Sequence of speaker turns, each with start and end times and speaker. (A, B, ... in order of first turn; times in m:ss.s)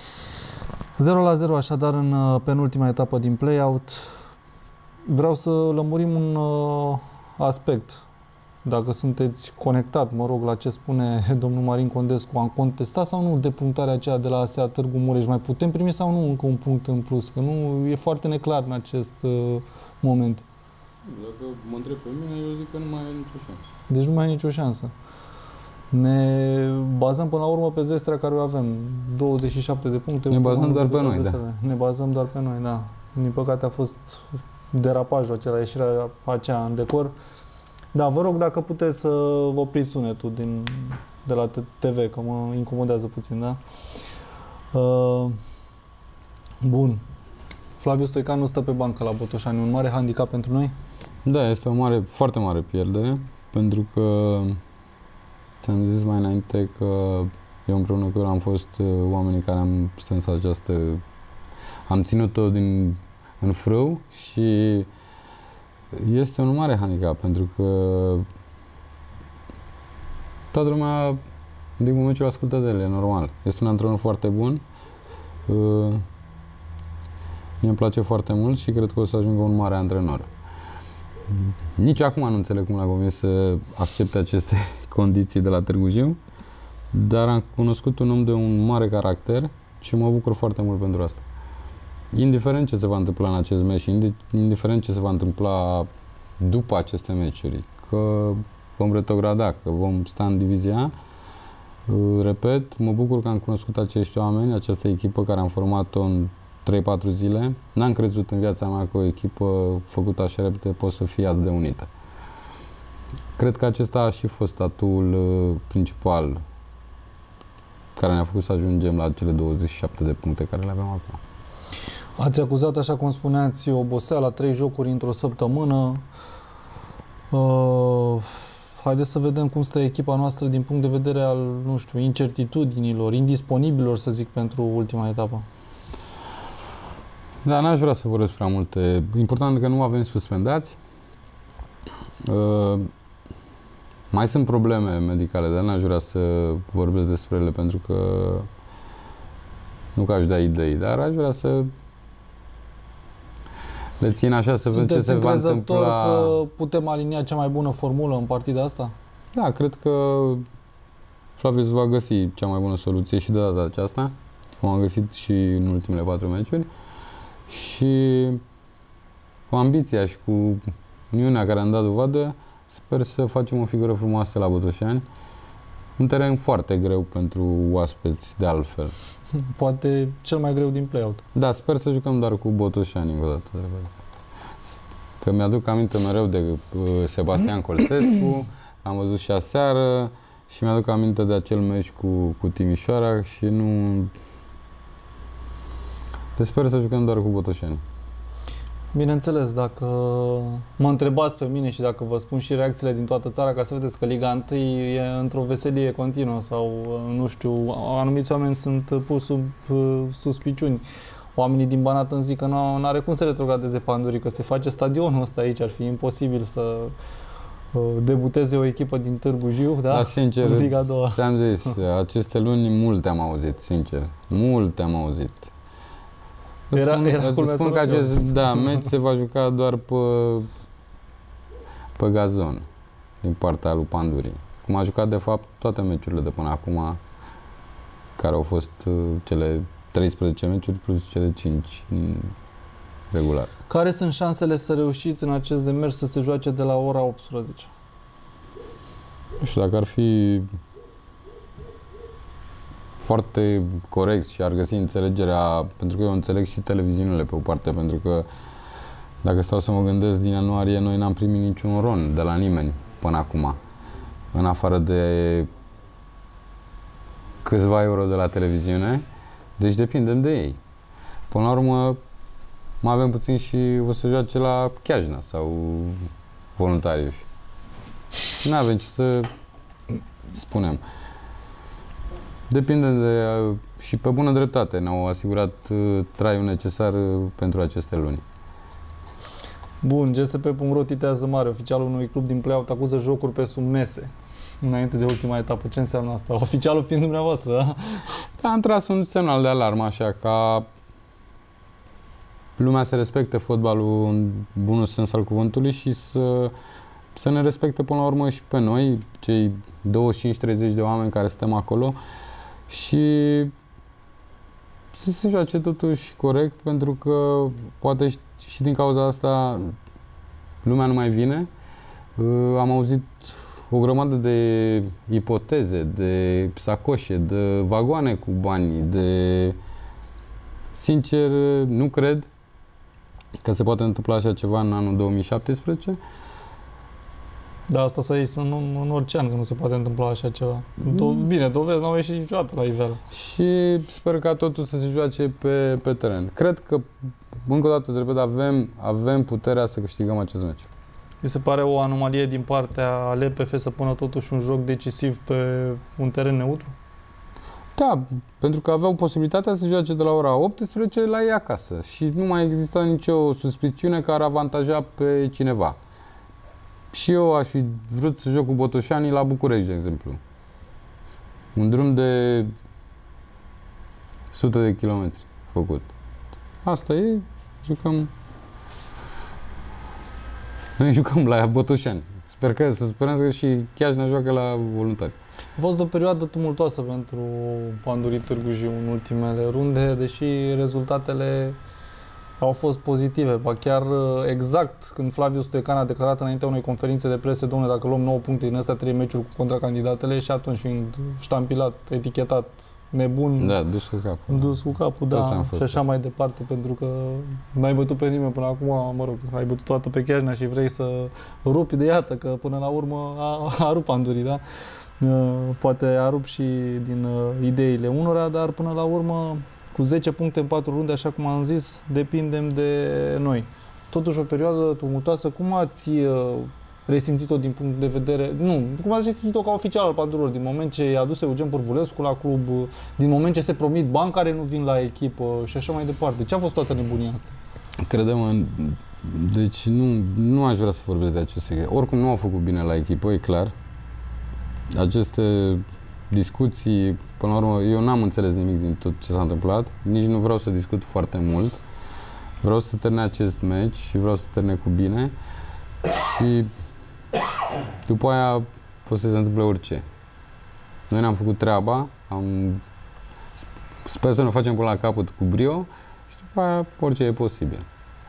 0:01.0-0:04.2 A
0:05.0-0:08.0 A
0:08.6-0:20.4 A
0:21.1-0:23.7 B
0:23.9-0:24.9 A
0:25.9-0:37.1 A
0:30.3-0:31.4 B
0:37.9-0:43.6 A
0:44.7-0:45.4 A
0:46.6-0:47.0 A
0:47.8-0:50.7 A
0:51.2-0:54.6 B
0:55.6-1:01.0 B
1:01.9-1:04.9 B
1:05.9-1:08.3 B
1:10.5-1:11.2 B
1:11.8-1:14.6 B
1:15.5-1:16.0 B
1:17.6-1:20.3 B
1:21.3-1:26.2 B
1:26.9-1:31.2 B
1:32.1-1:40.9 B
1:41.9-1:51.9 B
1:53.4-1:56.4 B
1:58.0-2:01.2 B
2:02.2-2:06.0 A
2:07.3-2:15.4 A
2:17.4-2:20.8 B
2:22.2-2:22.9 B
2:24.1-2:28.5 B
2:29.9-2:31.7 B
2:34.0-2:36.4 B
2:34.6-2:38.9 A
2:39.3-2:40.4 B
2:41.4-2:46.7 B
2:47.5-2:48.4 B
2:49.5-2:55.0 B
2:56.0-2:58.9 B
2:59.5-3:01.2 A
3:01.3-3:04.0 B
3:04.6-3:14.1 B
3:16.4-3:17.8 B
3:18.9-3:30.8 A
3:31.3-3:36.9 A
3:37.7-3:41.2 A
3:39.9-3:45.5 B
3:46.7-3:50.5 B
3:46.7-3:48.9 A
3:52.0-3:52.6 B
3:53.2-3:57.0 B
3:58.2-4:02.3 B
4:03.1-4:03.5 B
4:03.7-4:07.7 A
4:09.4-4:10.5 B
4:13.0-4:18.3 B
4:19.2-4:23.6 B
4:24.3-4:25.5 B
4:27.4-4:29.0 B
4:29.6-4:30.6 B
4:31.3-4:32.0 B
4:32.8-4:37.2 B
4:38.4-4:39.3 B
4:40.3-4:40.8 B
4:42.5-4:48.2 B
4:49.8-4:54.1 A
4:54.6-4:58.2 A
4:58.4-5:00.7 B
5:02.6-5:06.5 B
5:07.1-5:12.0 B
5:12.7-5:13.5 B
5:14.9-5:19.8 B
5:20.6-5:21.5 B
5:22.2-5:29.6 B
5:30.7-5:32.3 B
5:33.4-5:36.0 B
5:37.7-5:43.0 A
5:40.8-5:41.2 B
5:43.1-5:46.9 B
5:47.4-5:50.7 B
5:51.2-5:56.7 A
5:57.8-6:05.8 B
6:06.9-6:10.2 B
6:11.5-6:12.5 B
6:14.3-6:15.9 B
6:16.6-6:18.1 B
6:20.8-6:25.1 B
6:25.6-6:31.6 A
6:32.4-6:43.6 A
6:43.4-6:45.8 B
6:44.3-6:54.4 A
6:55.0-7:17.3 A
7:17.8-7:23.5 B
7:24.7-7:31.6 B
7:32.4-7:35.1 B
7:35.8-7:36.5 B
7:37.8-7:39.8 B
7:40.9-7:42.6 B
7:43.4-7:47.6 B